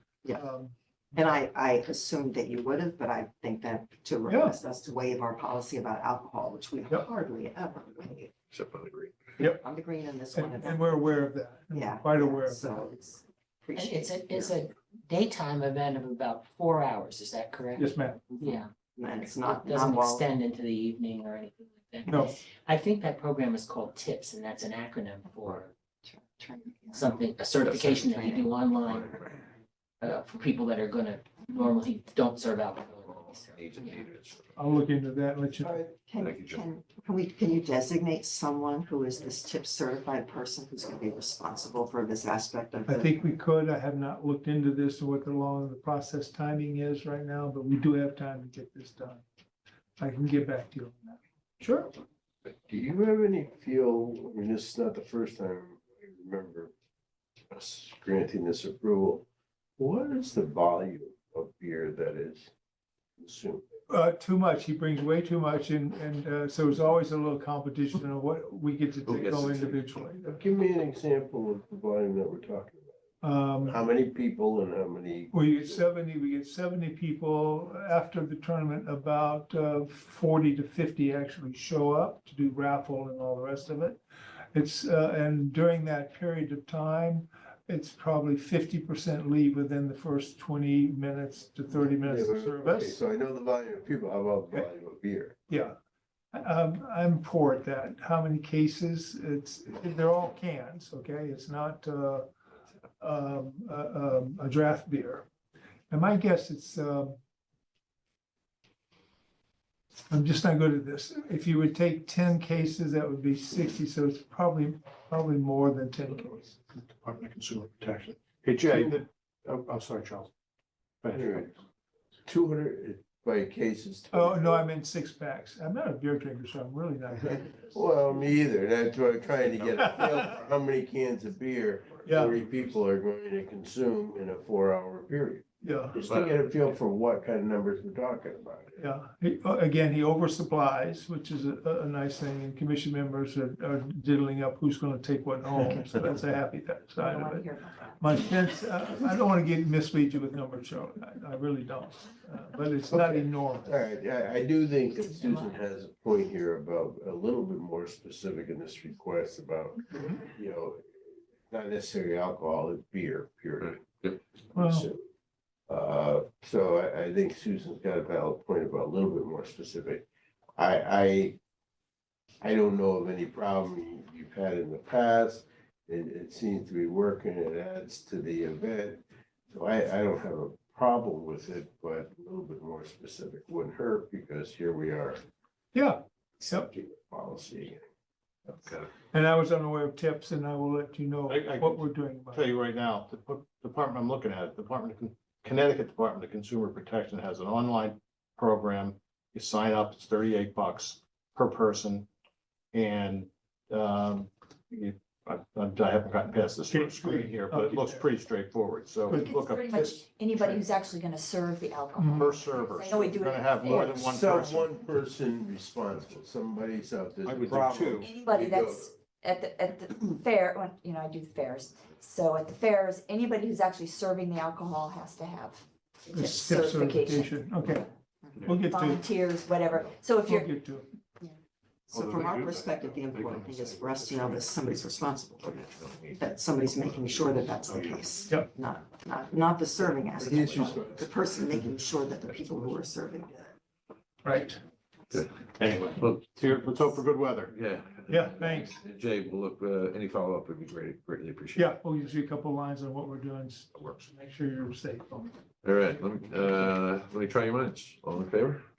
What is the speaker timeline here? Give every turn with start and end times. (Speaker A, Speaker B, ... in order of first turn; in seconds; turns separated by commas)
Speaker A: 0.3-0.7, Speaker B: 1.1-8.3, Speaker A: 4.3-4.6, Speaker C: 8.5-9.3, Speaker B: 9.4-14.6, Speaker A: 10.3-12.8, Speaker D: 13.7-17.9, Speaker A: 17.8-18.2, Speaker B: 18.3-20.2, Speaker D: 18.4-18.7, Speaker D: 19.3-25.7, Speaker A: 22.1-22.3, Speaker B: 26.0-27.1, Speaker D: 26.9-29.1, Speaker C: 27.6-29.4, Speaker D: 30.0-34.0, Speaker C: 33.0-34.8, Speaker A: 34.6-35.8, Speaker B: 35.9-43.1, Speaker C: 36.2-36.7, Speaker A: 42.9-49.2, Speaker A: 50.0-51.9, Speaker E: 52.5-56.7, Speaker E: 57.5-59.2, Speaker E: 59.8-62.5, Speaker E: 63.2-63.6, Speaker A: 63.9-70.3, Speaker C: 69.0-70.0, Speaker E: 70.2-73.0, Speaker A: 73.2-73.8, Speaker E: 73.6-75.8, Speaker A: 75.3-84.0, Speaker A: 84.5-93.0, Speaker E: 91.7-95.4, Speaker A: 95.5-95.7, Speaker A: 96.3-102.2, Speaker A: 103.0-105.3, Speaker A: 105.9-107.2, Speaker A: 110.1-116.6, Speaker F: 116.7-120.3, Speaker F: 121.0-121.5, Speaker E: 121.1-121.5, Speaker E: 122.2-124.7, Speaker A: 124.1-127.8, Speaker E: 127.1-138.7, Speaker C: 129.4-130.4, Speaker A: 132.0-132.3, Speaker A: 135.6-136.0, Speaker C: 136.0-136.3, Speaker A: 138.8-153.8, Speaker G: 147.0-148.0, Speaker E: 152.9-160.8, Speaker B: 155.2-155.5, Speaker E: 161.5-164.0, Speaker C: 163.6-164.2, Speaker E: 164.5-165.0, Speaker A: 164.5-164.9, Speaker E: 165.7-170.1, Speaker E: 170.6-171.4, Speaker E: 172.4-185.2, Speaker A: 185.7-186.7, Speaker E: 186.4-187.8, Speaker C: 188.6-188.9, Speaker A: 189.0-192.5, Speaker F: 191.3-202.1, Speaker F: 202.7-210.6, Speaker A: 206.7-208.1, Speaker G: 209.1-214.1, Speaker A: 212.0-212.3, Speaker F: 212.0-214.7, Speaker E: 213.6-218.9, Speaker F: 217.2-218.1, Speaker G: 218.0-227.3, Speaker A: 226.1-227.9, Speaker A: 228.4-229.0, Speaker G: 228.5-230.5, Speaker A: 230.2-230.9, Speaker B: 231.9-235.6, Speaker F: 231.9-234.5, Speaker C: 235.4-237.8, Speaker B: 236.1-243.5, Speaker E: 240.2-241.7, Speaker A: 244.2-244.6, Speaker F: 245.6-247.5, Speaker C: 245.9-246.2, Speaker C: 247.5-252.1, Speaker A: 248.1-248.8, Speaker A: 251.5-255.3, Speaker C: 253.7-254.1, Speaker C: 255.6-258.6